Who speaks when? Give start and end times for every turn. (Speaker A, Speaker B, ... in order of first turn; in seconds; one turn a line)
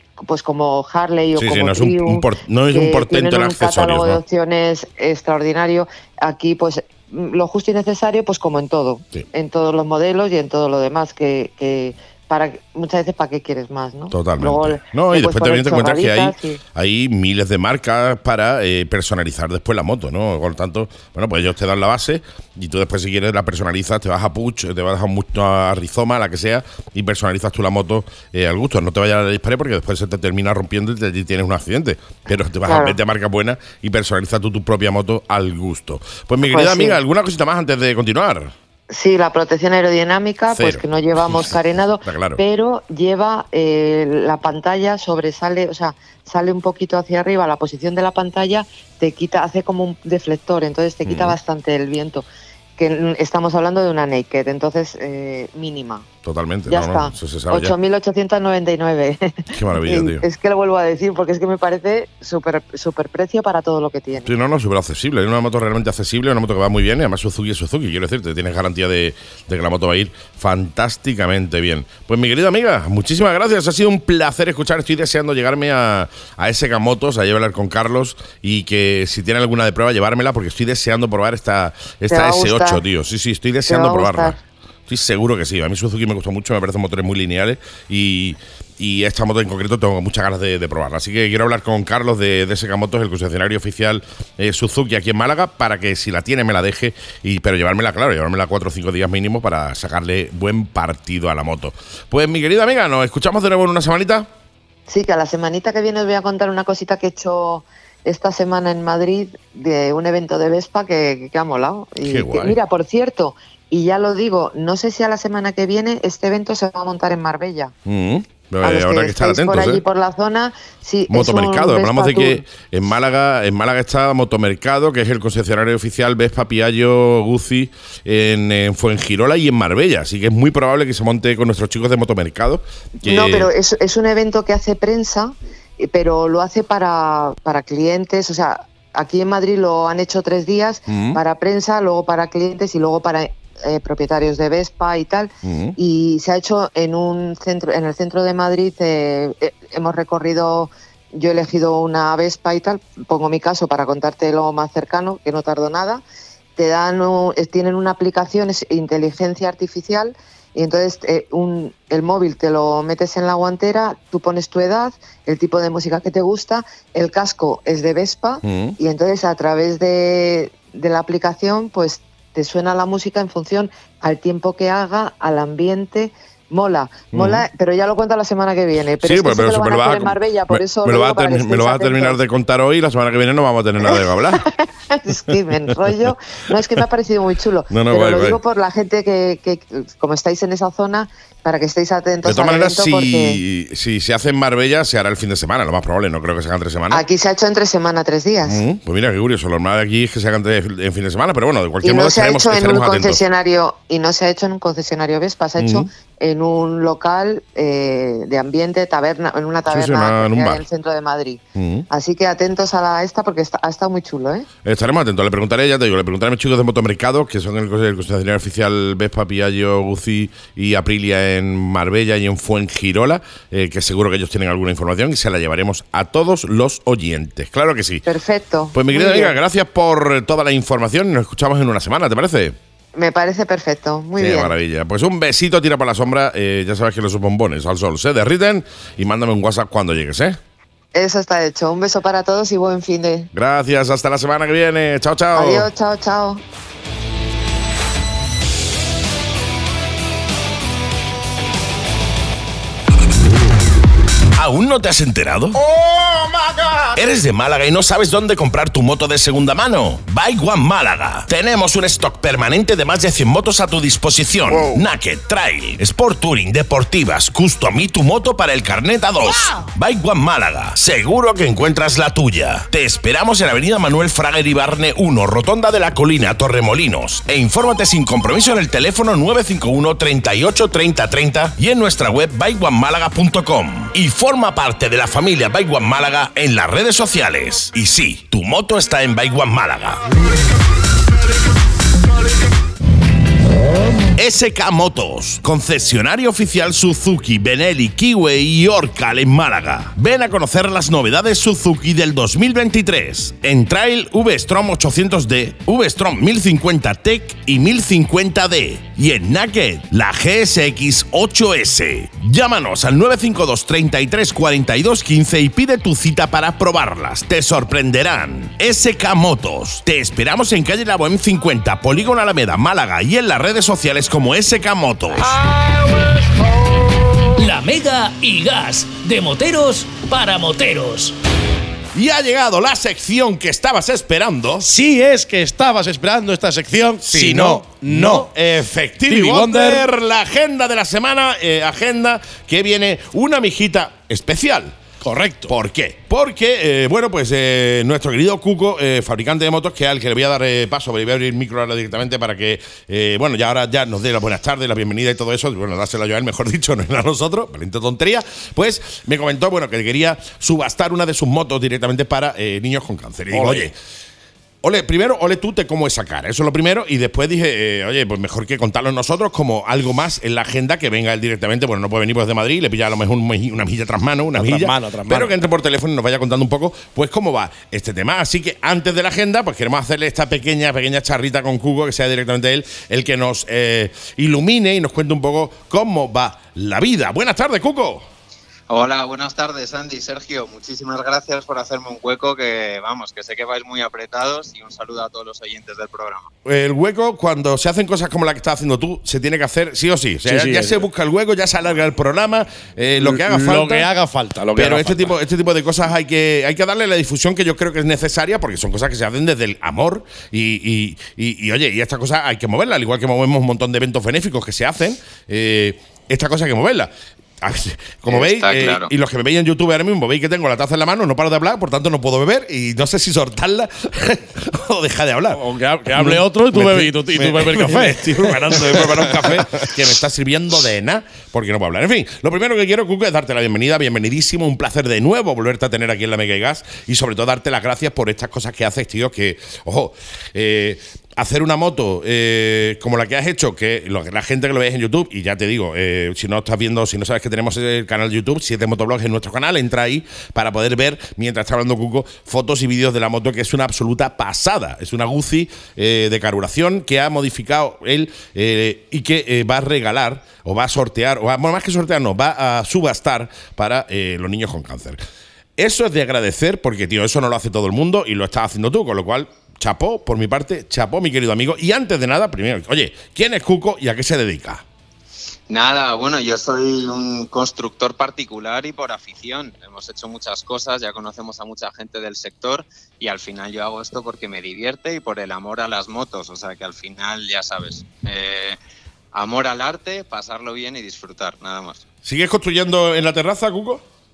Speaker A: 0.2-16.6
Speaker B: 1.4-4.2
Speaker B: 14.1-38.5
Speaker A: 32.7-33.0
Speaker A: 36.5-37.0
Speaker A: 38.9-52.3
Speaker B: 40.5-41.4
Speaker B: 42.0-42.4
Speaker B: 51.0-51.4
Speaker A: 52.8-56.1
Speaker B: 56.2-57.7
Speaker A: 56.7-64.3
Speaker B: 59.5-60.2
Speaker B: 64.2-104.3
Speaker A: 82.1-82.8
Speaker A: 83.7-84.4
Speaker A: 104.9-117.7
Speaker B: 112.0-112.6
Speaker B: 117.9-119.8
Speaker A: 118.6-122.4
Speaker B: 121.1-133.5
Speaker A: 133.0-156.0
Speaker B: 140.9-141.2
Speaker B: 145.4-145.8
Speaker A: 156.6-182.2
Speaker B: 168.4-168.8
Speaker B: 177.1-177.4
Speaker B: 179.0-184.4
Speaker A: 183.8-193.4
Speaker B: 185.3-186.8
Speaker B: 187.7-188.4
Speaker B: 192.2-197.0
Speaker A: 196.9-198.6
Speaker B: 198.4-203.2
Speaker A: 201.8-214.5
Speaker B: 205.6-205.9
Speaker B: 209.7-210.6
Speaker B: 211.6-211.9
Speaker B: 214.7-228.1
Speaker A: 228.1-229.4
Speaker B: 228.7-232.6
Speaker A: 232.9-234.5
Speaker B: 234.2-240.4
Speaker A: 240.9-243.3
Speaker B: 243.3-245.7
Speaker A: 245.3-246.4
Speaker B: 254.3-255.6
Speaker B: 256.9-290.0
Speaker B: 294.2-325.4
Speaker C: 327.4-331.1
Speaker B: 331.9-334.7
Speaker D: 334.6-338.3
Speaker B: 337.0-344.8
Speaker D: 339.0-339.9
Speaker D: 345.0-345.5
Speaker B: 345.5-363.8
Speaker D: 363.3-363.7
Speaker B: 364.6-388.1
Speaker D: 374.4-375.4
Speaker E: 388.7-396.3
Speaker B: 396.4-403.9
Speaker D: 400.2-400.8
Speaker D: 403.0-405.1
Speaker B: 404.6-425.4
Speaker E: 418.1-418.9
Speaker D: 425.3-429.7
Speaker B: 425.9-465.0
Speaker B: 465.6-474.6
Speaker E: 475.5-488.6
Speaker E: 489.1-491.8
Speaker B: 492.0-493.8